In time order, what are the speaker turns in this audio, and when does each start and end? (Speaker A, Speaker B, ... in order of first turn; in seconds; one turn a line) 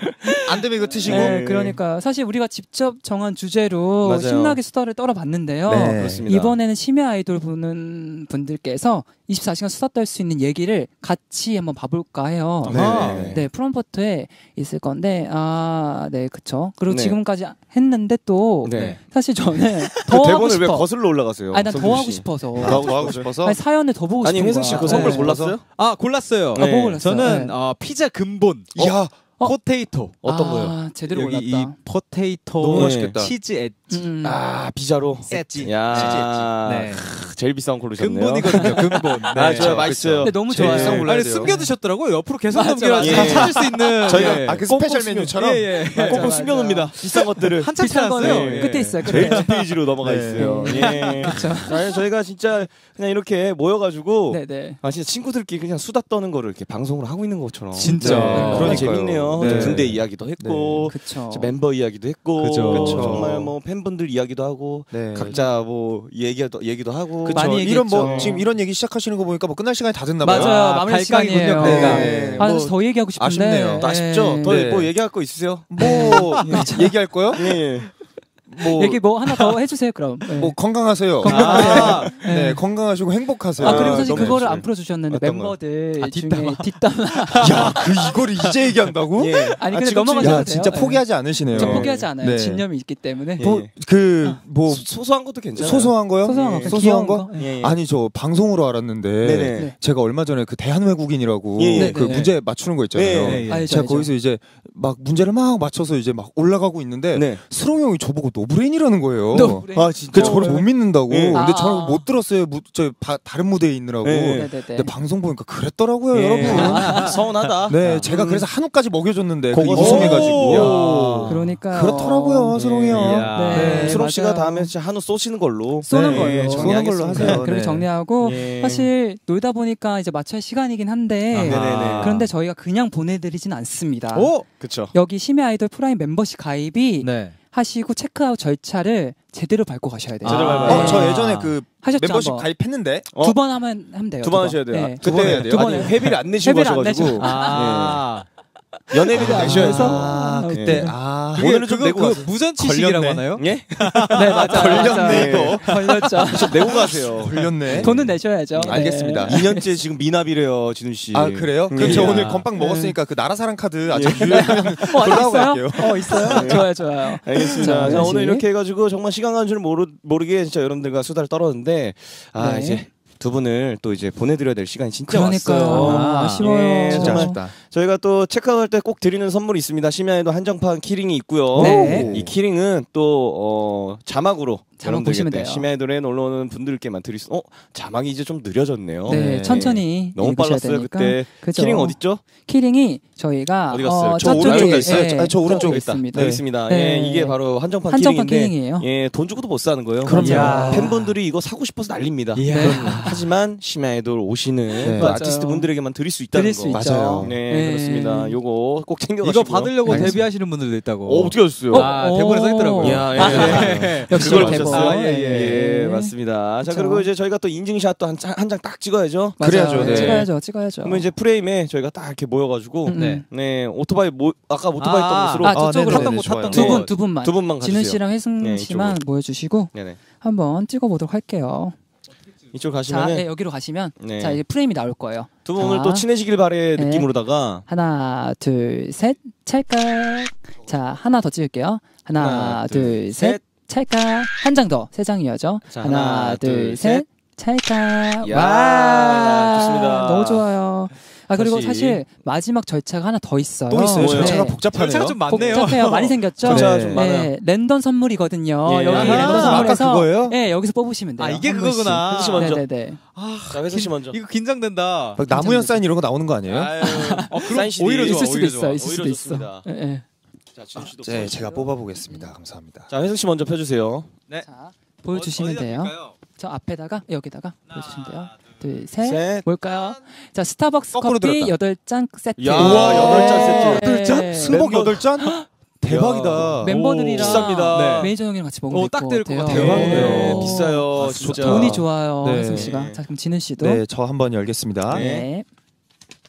Speaker A: 0.2-12.8
Speaker B: 0.5-1.8
Speaker C: 1.0-1.5
Speaker C: 4.0-4.6
Speaker B: 5.7-6.3
Speaker C: 5.9-6.6
Speaker C: 12.6-13.4
Speaker D: 12.7-13.3
Speaker B: 12.7-13.3
Speaker A: 13.3-20.9
Speaker C: 16.9-17.2
Speaker C: 18.6-19.0
Speaker C: 20.1-23.3
Speaker A: 21.5-25.3
Speaker B: 22.6-23.6
Speaker C: 24.2-25.6
Speaker B: 24.8-25.6
Speaker D: 24.8-25.2
Speaker D: 25.7-30.3
Speaker C: 26.6-27.2
Speaker A: 26.6-27.5
Speaker B: 28.8-29.2
Speaker C: 30.2-30.8
Speaker A: 30.3-31.8
Speaker D: 31.1-34.0
Speaker B: 32.6-33.3
Speaker C: 32.7-33.2
Speaker A: 33.9-34.4
Speaker C: 34.2-41.0
Speaker D: 35.3-37.1
Speaker B: 35.4-36.5
Speaker D: 38.0-39.9
Speaker A: 38.6-39.1
Speaker B: 39.3-41.6
Speaker A: 40.2-41.7
Speaker D: 40.6-46.4
Speaker A: 42.5-45.4
Speaker C: 43.0-44.6
Speaker B: 43.1-43.4
Speaker B: 44.2-45.8
Speaker A: 46.0-49.5
Speaker C: 46.0-68.4
Speaker D: 47.0-49.7
Speaker B: 50.0-50.6
Speaker A: 50.3-51.8
Speaker D: 50.7-51.6
Speaker A: 54.3-54.8
Speaker D: 57.8-59.9
Speaker A: 57.8-58.9
Speaker B: 58.0-60.9
Speaker A: 60.9-61.5
Speaker D: 62.4-63.4
Speaker B: 62.7-63.5
Speaker B: 64.9-65.4
Speaker B: 67.2-70.5
Speaker A: 67.3-68.5
Speaker A: 70.2-74.6
Speaker D: 70.3-72.3
Speaker B: 71.6-74.9
Speaker C: 71.9-72.7
Speaker C: 73.8-76.7
Speaker B: 75.7-77.6
Speaker A: 75.8-76.9
Speaker C: 77.3-77.9
Speaker B: 78.5-79.0
Speaker A: 78.6-80.6
Speaker B: 80.4-84.4
Speaker A: 81.2-82.6
Speaker D: 81.2-82.1
Speaker C: 81.3-82.1
Speaker C: 83.6-85.6
Speaker A: 83.6-87.8
Speaker D: 86.0-87.9
Speaker B: 87.4-92.7
Speaker C: 89.2-90.5
Speaker A: 89.5-93.5
Speaker C: 91.5-92.1
Speaker C: 93.4-93.7
Speaker B: 93.4-94.9
Speaker C: 94.7-96.8
Speaker B: 95.5-117.0
Speaker A: 96.2-97.5
Speaker C: 97.4-97.8
Speaker C: 99.2-99.7
Speaker C: 101.6-102.2
Speaker A: 101.7-102.3
Speaker C: 102.9-103.4
Speaker D: 103.1-103.8
Speaker A: 103.5-104.1
Speaker C: 107.1-107.4
Speaker A: 109.3-110.7
Speaker C: 109.3-111.4
Speaker A: 111.3-112.1
Speaker C: 114.0-114.5
Speaker A: 114.3-114.9
Speaker C: 116.1-118.5
Speaker A: 116.4-117.2
Speaker D: 116.4-118.1
Speaker B: 117.7-124.0
Speaker C: 119.5-121.3
Speaker D: 119.7-121.3
Speaker A: 119.8-120.2
Speaker A: 121.3-122.6
Speaker C: 122.5-127.4
Speaker D: 122.9-124.0
Speaker A: 123.3-124.7
Speaker A: 125.8-134.4
Speaker B: 125.9-127.9
Speaker C: 128.2-128.9
Speaker D: 131.3-132.3
Speaker C: 131.5-132.2
Speaker D: 134.1-134.5
Speaker C: 134.6-134.9
Speaker A: 134.9-141.2
Speaker D: 137.0-137.4
Speaker D: 140.2-141.6
Speaker C: 140.2-141.1
Speaker B: 140.6-143.1
Speaker A: 141.8-142.5
Speaker C: 143.1-143.4
Speaker A: 143.2-147.8
Speaker C: 144.2-148.1
Speaker B: 145.0-146.0
Speaker D: 147.2-148.3
Speaker C: 148.9-152.3
Speaker A: 148.9-150.9
Speaker B: 149.2-151.6
Speaker D: 149.3-150.2
Speaker D: 150.8-154.9
Speaker B: 152.6-153.4
Speaker C: 153.4-154.0
Speaker B: 153.9-157.9
Speaker A: 154.1-156.7
Speaker C: 154.6-155.7
Speaker C: 156.2-162.3
Speaker A: 157.8-159.7
Speaker B: 158.6-159.4
Speaker B: 161.1-166.7
Speaker D: 161.8-162.5
Speaker A: 162.6-163.0
Speaker C: 163.9-164.9
Speaker A: 164.1-168.4
Speaker C: 166.2-192.2
Speaker B: 167.4-168.1
Speaker A: 172.4-172.8
Speaker A: 175.1-177.4
Speaker D: 175.2-176.5
Speaker B: 176.9-177.5
Speaker B: 181.5-182.3
Speaker A: 181.6-182.1
Speaker D: 181.9-182.2
Speaker A: 184.8-185.7
Speaker A: 189.1-198.9
Speaker C: 193.7-210.2
Speaker B: 194.2-196.4
Speaker B: 200.0-200.9
Speaker D: 200.2-200.9
Speaker A: 200.2-200.9
Speaker D: 202.3-203.1
Speaker A: 202.5-203.2
Speaker A: 204.8-205.7
Speaker B: 204.8-205.2
Speaker A: 206.3-208.4
Speaker B: 206.7-207.3
Speaker D: 209.2-215.6
Speaker A: 209.8-210.2
Speaker B: 209.9-210.2
Speaker C: 211.1-211.9
Speaker A: 211.7-217.1
Speaker C: 212.8-225.7
Speaker B: 213.2-214.8
Speaker A: 219.4-221.1
Speaker B: 219.4-220.3
Speaker A: 222.9-223.2
Speaker D: 222.9-223.2
Speaker D: 224.8-226.9
Speaker A: 225.4-231.8
Speaker B: 225.5-226.9
Speaker C: 226.5-229.0
Speaker C: 229.7-230.0
Speaker C: 232.5-233.3
Speaker A: 232.9-236.1
Speaker C: 234.0-234.4
Speaker C: 235.4-237.6
Speaker A: 236.8-237.1
Speaker A: 237.7-254.6
Speaker C: 242.2-243.4
Speaker C: 245.7-247.0
Speaker C: 248.2-250.4
Speaker C: 251.3-252.0
Speaker B: 253.7-255.5
Speaker C: 253.9-254.5
Speaker D: 254.7-257.0
Speaker A: 255.3-263.0
Speaker C: 256.4-257.3
Speaker C: 258.6-259.7
Speaker D: 258.9-259.8
Speaker B: 258.9-260.4
Speaker D: 261.2-262.6
Speaker C: 262.0-262.6
Speaker D: 263.1-265.2
Speaker C: 263.5-264.2
Speaker B: 265.2-266.7
Speaker A: 265.3-265.8
Speaker C: 266.5-269.7
Speaker A: 266.8-270.0
Speaker D: 267.3-268.9
Speaker C: 270.6-271.7
Speaker B: 271.0-272.9
Speaker C: 272.9-274.1
Speaker A: 274.4-284.6
Speaker D: 275.1-276.1
Speaker D: 277.7-278.3
Speaker C: 279.0-279.5
Speaker B: 280.9-281.6
Speaker C: 282.4-285.1
Speaker B: 282.6-286.8
Speaker D: 282.6-283.9
Speaker A: 285.2-285.4
Speaker C: 285.8-288.1
Speaker D: 286.6-290.8
Speaker A: 286.6-293.8
Speaker C: 289.5-293.0
Speaker B: 289.5-290.4
Speaker B: 290.9-292.8
Speaker B: 293.6-295.1
Speaker A: 294.9-295.4
Speaker C: 294.9-295.3